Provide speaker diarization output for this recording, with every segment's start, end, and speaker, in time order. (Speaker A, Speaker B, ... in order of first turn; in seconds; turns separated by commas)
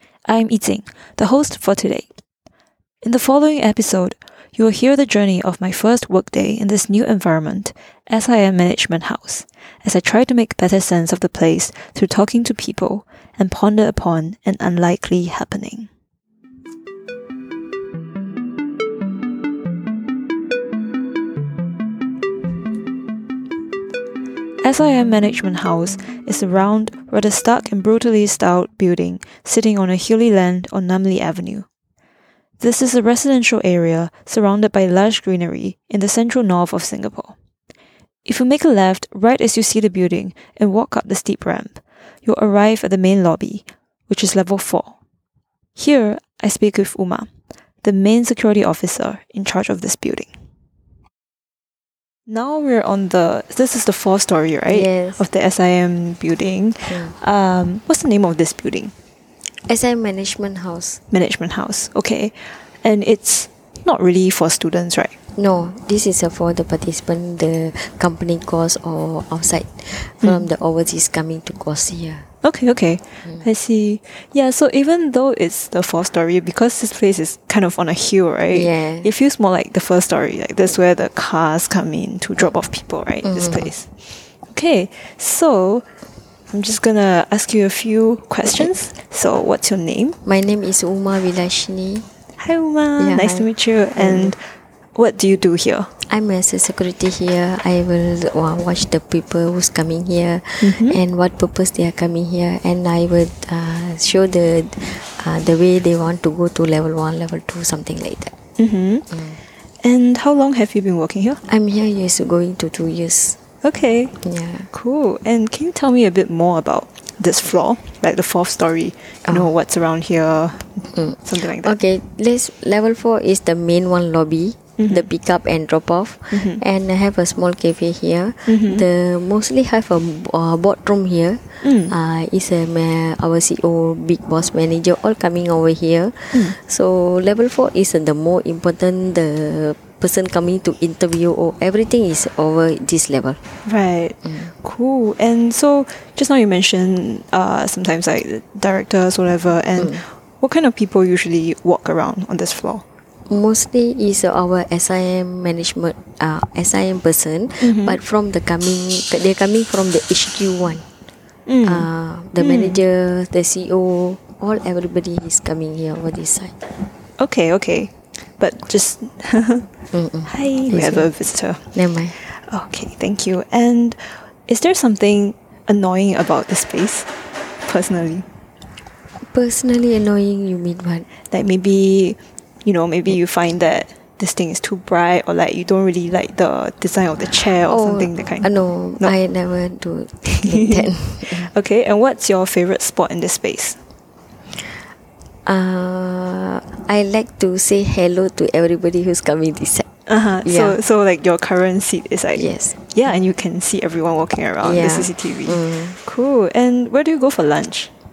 Speaker A: 0.2-2.1, Speaker A: 3.0-15.9, Speaker A: 24.6-31.6, Speaker A: 32.6-37.3, Speaker A: 38.2-44.9, Speaker A: 45.8-47.3, Speaker A: 47.8-50.3, Speaker A: 52.3-58.9, Speaker B: 54.6-55.2, Speaker B: 56.9-57.1, Speaker B: 59.6-61.0, Speaker A: 61.1-65.1, Speaker B: 65.3-72.3, Speaker A: 70.2-70.5, Speaker A: 72.4-85.8, Speaker B: 78.5-79.1, Speaker B: 83.2-83.7, Speaker A: 86.5-90.2, Speaker B: 90.2-92.0, Speaker A: 92.4-94.4, Speaker B: 93.0-94.3, Speaker A: 94.9-95.9, Speaker B: 96.1-108.3, Speaker A: 100.6-101.0, Speaker A: 108.6-109.1, Speaker B: 109.1-109.4, Speaker A: 109.8-111.4, Speaker B: 111.5-113.4, Speaker A: 113.6-114.2, Speaker B: 114.2-114.7, Speaker A: 114.7-121.8, Speaker B: 120.9-143.4, Speaker A: 124.8-125.1, Speaker A: 126.3-126.6, Speaker A: 128.5-128.8, Speaker A: 131.6-131.9, Speaker A: 143.6-152.8, Speaker B: 144.2-144.5, Speaker B: 149.8-150.0, Speaker B: 153.3-160.8, Speaker A: 157.6-158.0, Speaker A: 161.5-161.9, Speaker B: 161.6-166.5, Speaker A: 162.4-162.8, Speaker A: 167.2-169.7, Speaker B: 169.9-171.1, Speaker A: 170.2-177.1, Speaker B: 171.7-172.2, Speaker A: 177.6-178.2, Speaker B: 179.2-181.1, Speaker A: 181.3-189.1, Speaker B: 187.7-191.5, Speaker A: 190.3-193.8, Speaker B: 195.4-199.9, Speaker A: 200.1-207.9, Speaker B: 200.4-200.8, Speaker B: 202.3-202.8, Speaker B: 204.6-206.0